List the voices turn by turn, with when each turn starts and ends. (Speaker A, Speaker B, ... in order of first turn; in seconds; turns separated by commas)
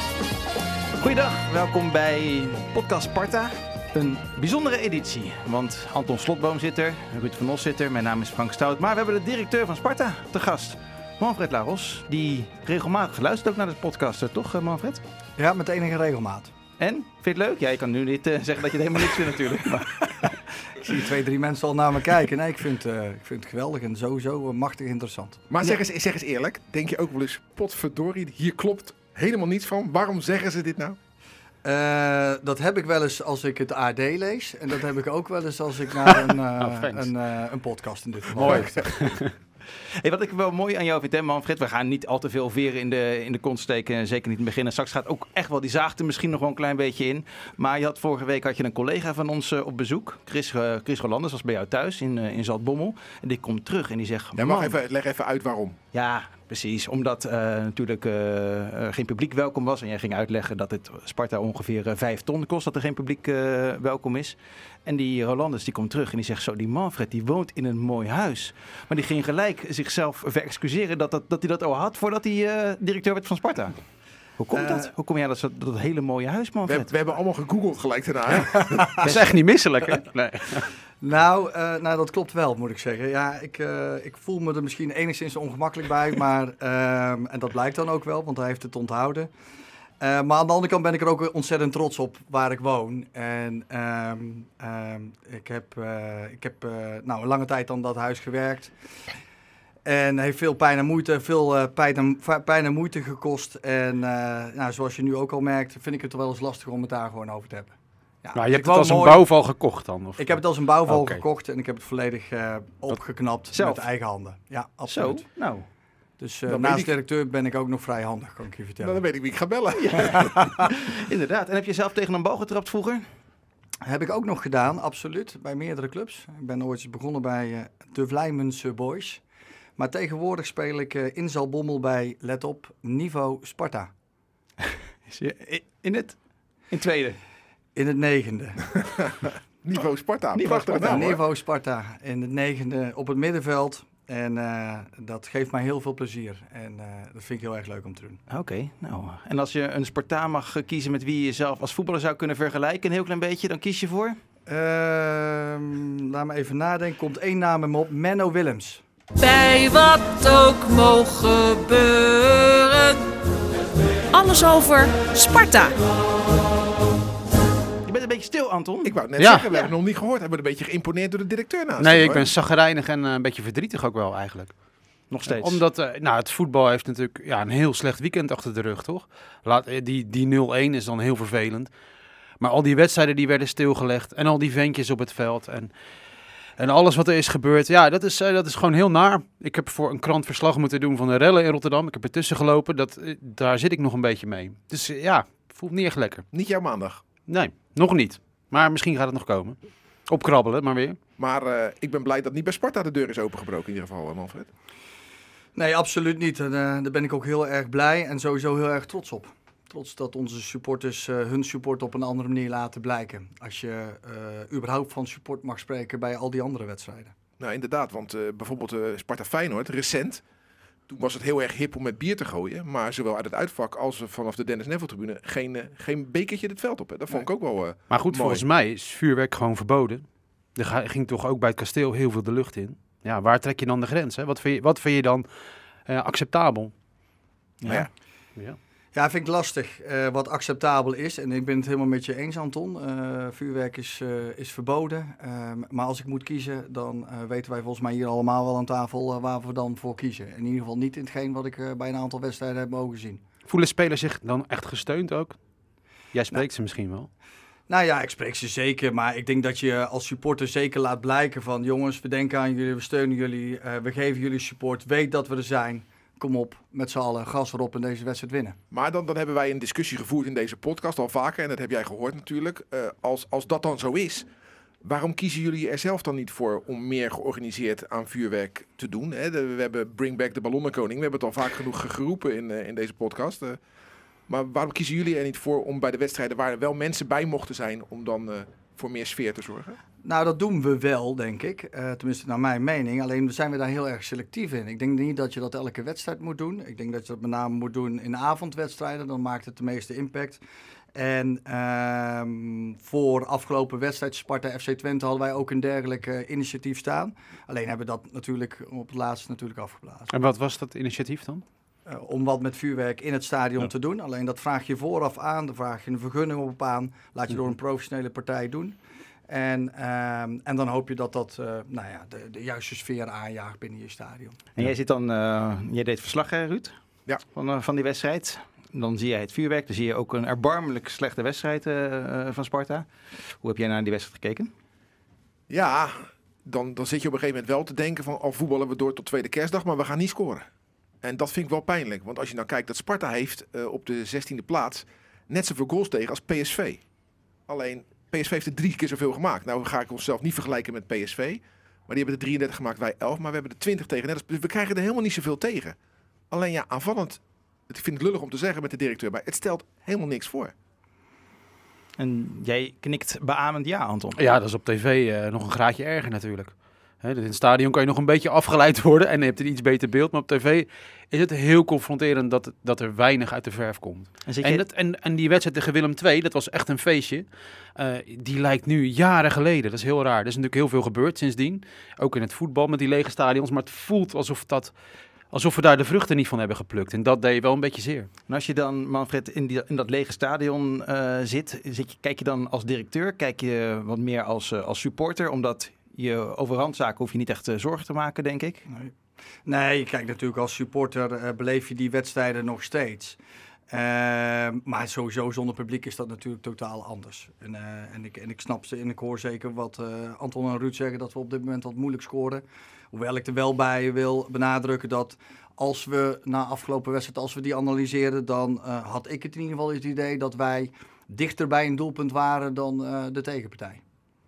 Speaker A: 1.0-15.0, Speaker B: 15.4-16.5, Speaker A: 16.8-20.1, Speaker B: 20.0-25.4, Speaker C: 25.5-31.0, Speaker B: 31.6-38.9, Speaker D: 36.6-37.1, Speaker D: 38.3-39.3, Speaker A: 39.7-54.8, Speaker C: 54.4-55.8, Speaker A: 55.9-73.8, Speaker A: 74.3-76.9, Speaker B: 74.5-74.9, Speaker C: 76.7-78.8, Speaker D: 79.0-80.7, Speaker B: 81.0-89.3, Speaker B: 90.0-98.7, Speaker B: 99.8-109.3, Speaker D: 108.3-111.2, Speaker B: 110.2-115.3, Speaker A: 113.5-113.8, Speaker A: 114.9-115.7, Speaker B: 116.2-119.0, Speaker C: 116.5-116.9, Speaker C: 118.8-120.5, Speaker A: 119.7-123.1, Speaker B: 123.8-129.2, Speaker B: 129.8-133.9, Speaker A: 135.1-137.2, Speaker B: 137.7-138.7, Speaker C: 139.2-141.2, Speaker A: 140.3-141.2, Speaker B: 140.8-148.2, Speaker A: 148.3-154.2, Speaker B: 154.5-158.8, Speaker E: 159.2-163.1, Speaker E: 164.1-165.7, Speaker A: 167.8-169.0, Speaker C: 168.8-172.3, Speaker D: 169.2-169.5, Speaker D: 171.8-174.5, Speaker A: 175.1-175.6, Speaker D: 175.2-181.7, Speaker D: 182.4-185.7, Speaker D: 186.6-196.2, Speaker C: 196.3-197.0, Speaker D: 197.3-199.6, Speaker D: 200.1-201.0, Speaker C: 201.2-204.5, Speaker B: 205.6-217.1, Speaker C: 217.4-220.2, Speaker C: 220.9-228.4, Speaker D: 227.9-235.3, Speaker D: 235.8-236.7, Speaker A: 237.6-237.9, Speaker B: 238.9-253.2, Speaker D: 253.5-255.4, Speaker D: 256.1-257.1, Speaker B: 257.7-268.6, Speaker C: 268.7-274.3, Speaker C: 274.8-283.6, Speaker C: 284.3-289.8, Speaker B: 290.0-300.4, Speaker B: 300.9-310.1, Speaker D: 310.1-311.4, Speaker B: 311.9-324.4, Speaker A: 324.5-326.7, Speaker A: 327.3-332.9, Speaker A: 333.4-334.5, Speaker C: 335.5-340.5, Speaker C: 341.0-346.8, Speaker C: 347.5-355.8, Speaker C: 356.3-360.5, Speaker A: 362.0-364.2, Speaker D: 364.1-384.7, Speaker A: 374.3-374.6, Speaker D: 385.3-388.1, Speaker A: 388.3-398.6, Speaker B: 398.7-398.9, Speaker B: 399.4-403.2, Speaker B: 403.7-423.8